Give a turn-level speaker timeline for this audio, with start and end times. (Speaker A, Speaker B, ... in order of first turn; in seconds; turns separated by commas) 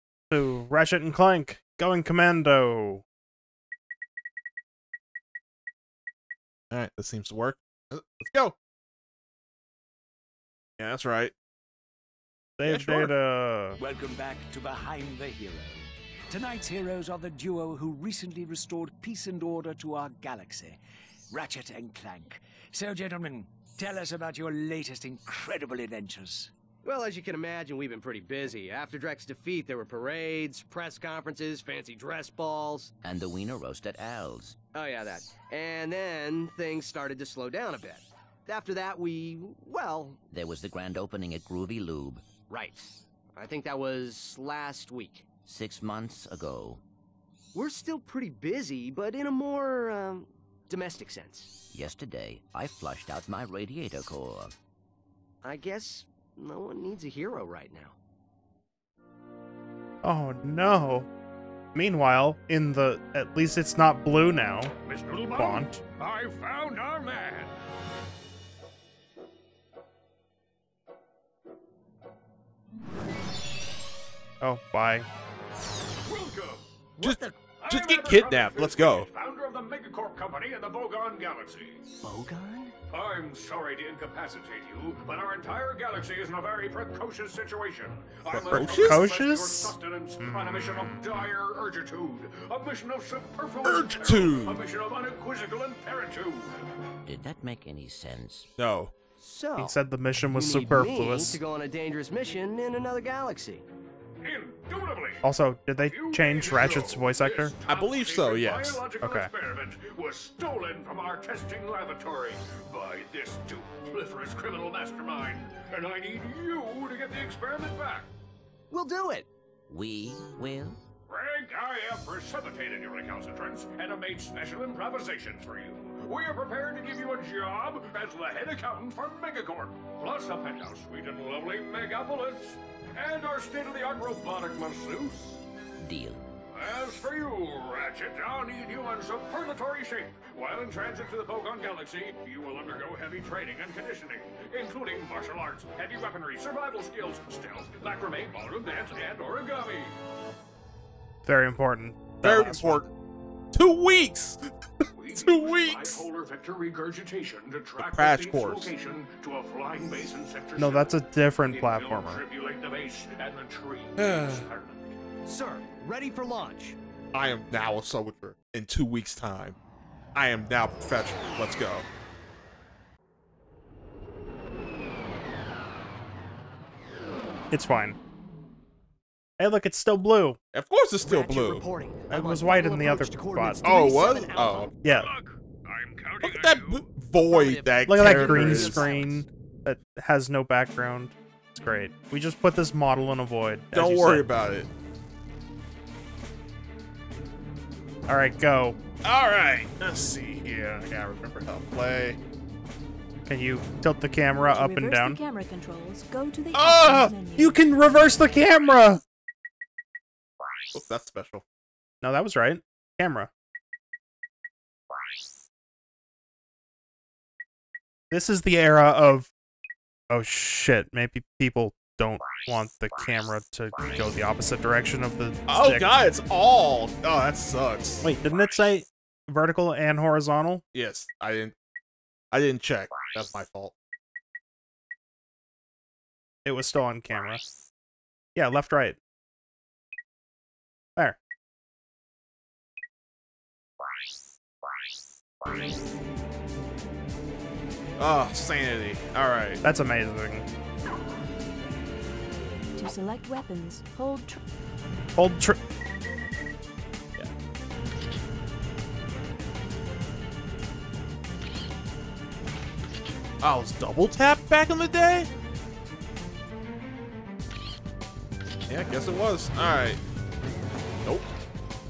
Speaker A: 0.3-3.0, Speaker B: 6.7-8.6, Speaker B: 10.8-11.3, Speaker A: 12.6-13.8, Speaker B: 12.6-13.1, Speaker C: 13.8-20.8, Speaker C: 21.3-26.5, Speaker D: 26.8-32.9, Speaker E: 33.0-34.5, Speaker D: 34.7-40.2, Speaker E: 40.3-42.2, Speaker D: 42.5-45.3, Speaker E: 45.5-46.8, Speaker D: 47.5-51.5, Speaker E: 51.7-54.5, Speaker D: 55.4-58.0, Speaker A: 60.0-61.1, Speaker A: 61.7-64.7, Speaker F: 64.8-67.5, Speaker A: 65.3-65.8, Speaker A: 74.4-75.1, Speaker F: 76.0-76.7, Speaker D: 77.0-77.3, Speaker B: 77.0-79.1, Speaker F: 77.6-81.8, Speaker D: 82.0-82.7, Speaker F: 82.9-96.6, Speaker B: 88.3-89.0, Speaker A: 88.5-91.0, Speaker B: 93.6-94.6, Speaker E: 97.0-98.5, Speaker B: 98.6-98.9, Speaker D: 99.2-99.7, Speaker A: 99.6-101.4, Speaker D: 100.3-103.6, Speaker F: 104.2-105.2, Speaker A: 105.2-107.5, Speaker F: 105.9-118.1, Speaker B: 107.7-108.8, Speaker A: 109.0-109.3, Speaker D: 118.7-119.3, Speaker E: 119.7-120.8, Speaker F: 121.1-135.4, Speaker E: 135.8-136.2, Speaker F: 136.5-149.9, Speaker A: 151.2-152.8, Speaker B: 152.2-152.9, Speaker B: 153.5-156.0, Speaker F: 154.9-164.9, Speaker B: 157.8-158.7, Speaker A: 160.6-162.2, Speaker B: 164.0-164.4, Speaker D: 165.2-166.8, Speaker B: 167.1-169.6, Speaker B: 170.1-171.8, Speaker A: 177.5-178.0, Speaker A: 179.4-180.4, Speaker B: 180.5-181.7, Speaker D: 181.0-184.8, Speaker A: 182.1-183.7, Speaker B: 183.6-184.7, Speaker F: 184.8-186.9, Speaker A: 184.8-185.1, Speaker B: 186.2-188.9, Speaker D: 187.2-189.2, Speaker A: 187.8-194.2, Speaker B: 193.7-194.7, Speaker A: 198.1-198.8, Speaker B: 199.0-202.2, Speaker A: 203.2-205.2, Speaker G: 204.5-207.7, Speaker B: 206.5-207.1, Speaker A: 207.4-209.0, Speaker B: 210.7-211.4, Speaker A: 212.0-213.3, Speaker A: 218.1-219.3, Speaker A: 220.1-225.9, Speaker B: 225.5-228.1, Speaker A: 228.0-230.6, Speaker B: 230.7-231.5, Speaker B: 232.3-233.7, Speaker A: 236.4-237.4, Speaker A: 238.3-239.0, Speaker B: 248.0-249.6, Speaker A: 249.6-250.4, Speaker G: 252.8-254.4, Speaker A: 255.2-255.6, Speaker B: 263.4-265.3, Speaker B: 268.7-270.0